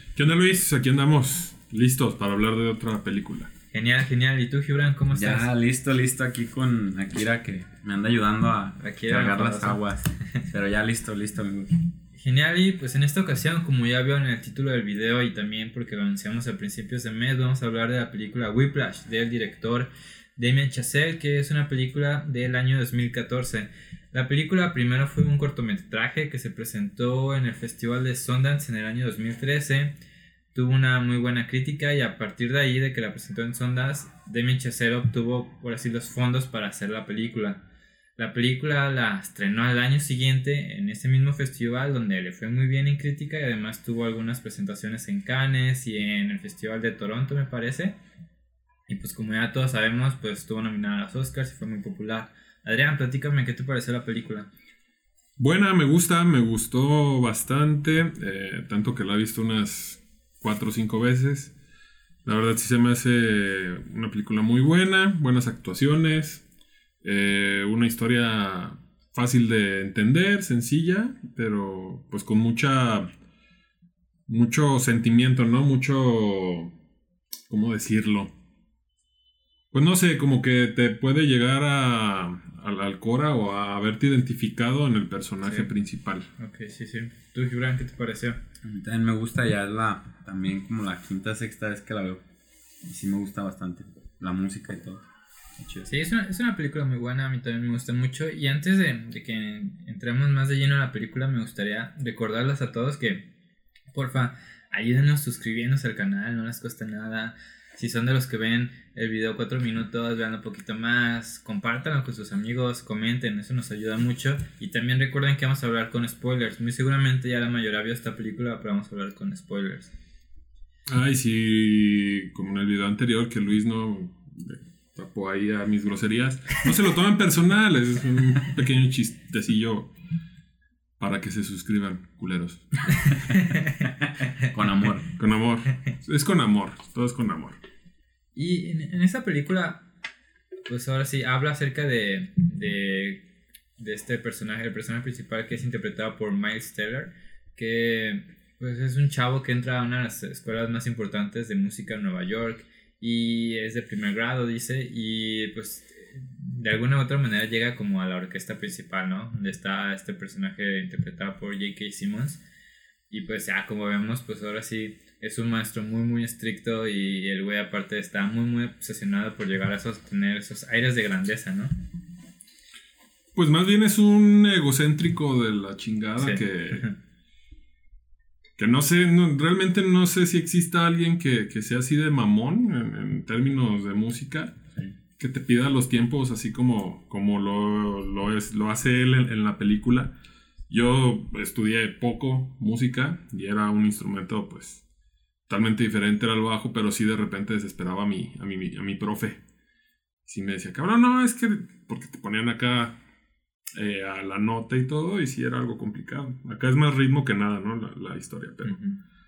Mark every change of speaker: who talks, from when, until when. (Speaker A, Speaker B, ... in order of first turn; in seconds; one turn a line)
Speaker A: 0.1-3.5
Speaker B: 3.7-5.5
Speaker C: 5.1-11.8
Speaker B: 8.8-10.5
Speaker B: 12.2-29.9
Speaker B: 30.5-37.6
Speaker B: 38.2-48.0
Speaker B: 48.9-54.5
Speaker A: 55.4-61.5
Speaker A: 62.2-66.4
Speaker A: 67.0-73.1
Speaker A: 74.3-76.7
Speaker A: 77.5-78.3
Speaker A: 79.7-86.3
Speaker B: 86.4-88.4
Speaker C: 88.6-92.2
Speaker C: 92.8-95.0
Speaker C: 95.6-95.9
Speaker B: 95.9-103.3
Speaker B: 103.9-119.9
Speaker A: 120.9-129.9
Speaker A: 131.0-133.1
Speaker B: 132.9-134.4
Speaker C: 134.5-135.1
Speaker A: 135.1-137.6
Speaker B: 138.3-139.8
Speaker B: 140.7-143.2
Speaker B: 143.8-162.4
Speaker B: 163.1-171.7
Speaker A: 173.3-176.8
Speaker B: 176.2-177.0
Speaker A: 178.6-184.6
Speaker A: 185.2-190.1
Speaker A: 190.7-194.8
Speaker A: 195.5-199.4
Speaker A: 200.3-203.0
Speaker A: 203.7-208.8
Speaker B: 208.7-209.0